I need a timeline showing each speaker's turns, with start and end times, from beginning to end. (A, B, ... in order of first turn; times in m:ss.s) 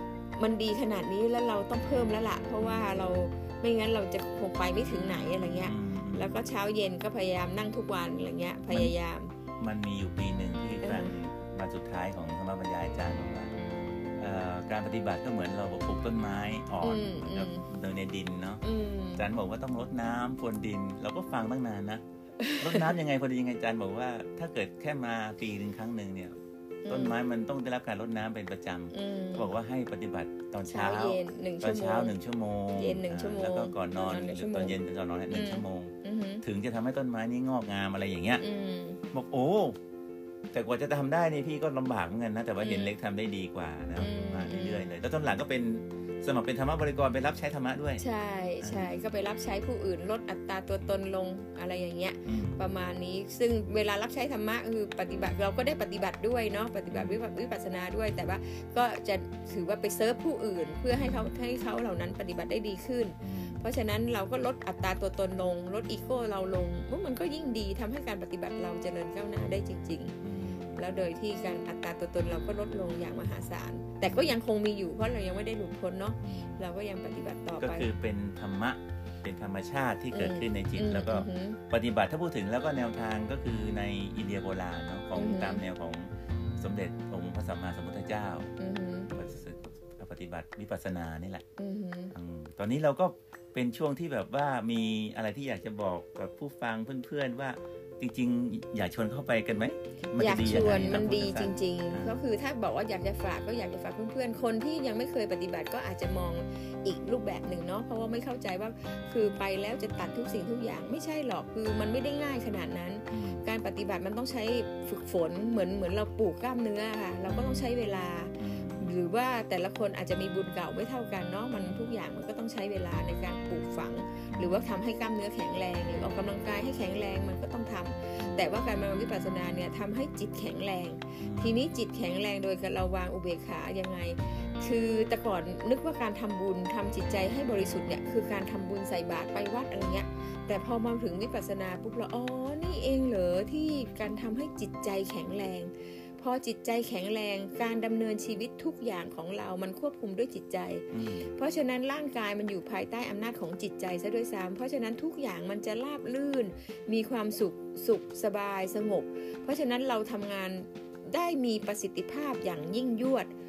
0:00.4-0:09.3 A
0:02.6-0:03.0 B
0:05.6-0:06.3 B
0:09.6-0:13.5 B
0:10.8-0:11.2 A
0:14.2-0:18.6 B
0:16.8-0:17.7 A
0:18.6-0:19.3 A
0:19.2-0:22.0 B
0:22.4-0:22.8 A
0:22.6-0:26.3 B
0:26.8-0:27.2 A
0:26.9-0:38.4 B
0:28.9-0:29.5 A
0:30.7-0:32.1 A
0:32.7-0:34.8 A
0:35.3-0:36.4 A
0:38.4-0:39.0 A
0:39.1-0:39.8 B
0:40.5-0:48.0 B
0:42.6-0:42.9 A
0:44.0-0:44.9 A
0:48.0-1:10.2 A
0:48.6-0:48.9 B
0:52.2-0:52.6 B
0:56.9-0:57.2 B
1:00.9-1:01.3 B
1:03.2-1:03.6 B
1:10.2-1:10.8 B
1:10.8-1:17.9 A
1:14.0-1:14.4 B
1:16.2-1:16.6 B
1:17.6-1:28.5 B
1:20.1-1:21.6 A
1:25.1-1:25.6 A
1:28.6-1:29.1 A
1:29.1-1:31.4 B
1:31.6-1:32.1 A
1:32.1-1:42.2 B
1:40.2-2:43.3 A
1:53.1-1:53.4 B
1:57.3-1:57.7 B
1:58.4-1:58.9 B
2:01.6-2:01.8 B
2:04.3-2:04.8 B
2:08.2-2:08.4 B
2:11.2-2:11.7 B
2:30.9-2:31.3 B